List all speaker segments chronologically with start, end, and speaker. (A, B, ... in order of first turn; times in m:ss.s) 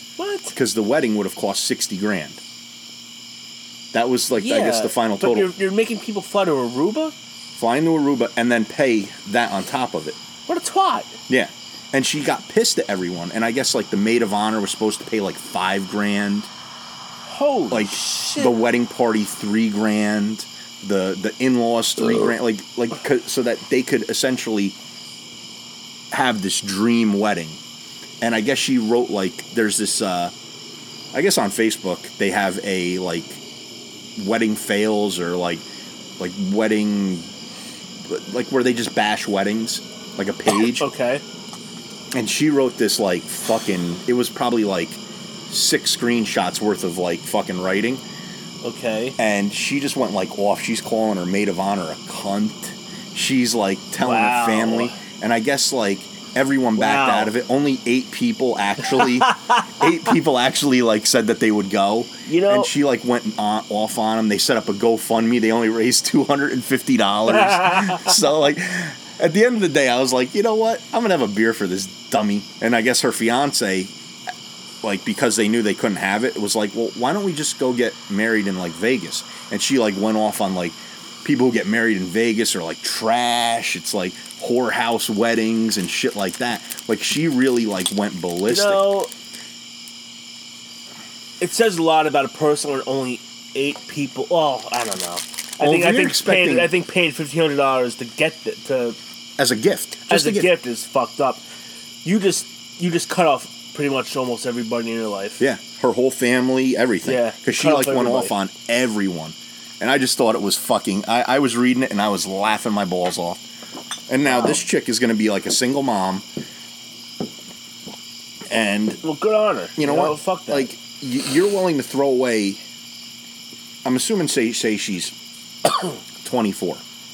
0:00.2-0:00.6 A
0:00.5-0:02.4 B
0:03.9-0:05.5 B
0:04.4-0:07.1 A
0:07.6-0:10.2 B
0:10.5-0:11.2 A
0:11.3-0:16.5 B
0:17.3-0:18.6 A
0:17.7-0:24.8 B
0:26.1-0:27.6 B
0:28.2-0:30.3 B
0:31.1-0:33.4 B
0:34.2-0:35.6 B
0:36.2-0:37.3 B
0:38.1-0:40.9 B
0:40.6-0:41.2 A
0:42.1-0:48.0 B
0:48.6-0:49.2 A
0:49.2-1:13.9 B
0:54.0-0:55.0 A
0:56.8-0:57.3 A
0:58.9-1:00.1 A
1:02.3-1:02.7 A
1:07.3-1:08.2 A
1:14.8-1:29.0 B
1:28.5-1:29.1 A
1:31.4-1:39.0 A
1:35.6-1:36.7 B
1:39.4-1:40.5 B
1:40.1-1:41.4 A
1:42.0-1:45.4 A
1:45.4-1:53.4 B
1:47.1-1:48.3 A
1:54.1-1:56.3 B
1:54.3-1:54.6 A
1:58.5-1:59.0 B
1:59.0-2:00.7 A
1:59.8-2:02.6 B
2:03.8-2:05.1 B
2:06.2-2:06.8 B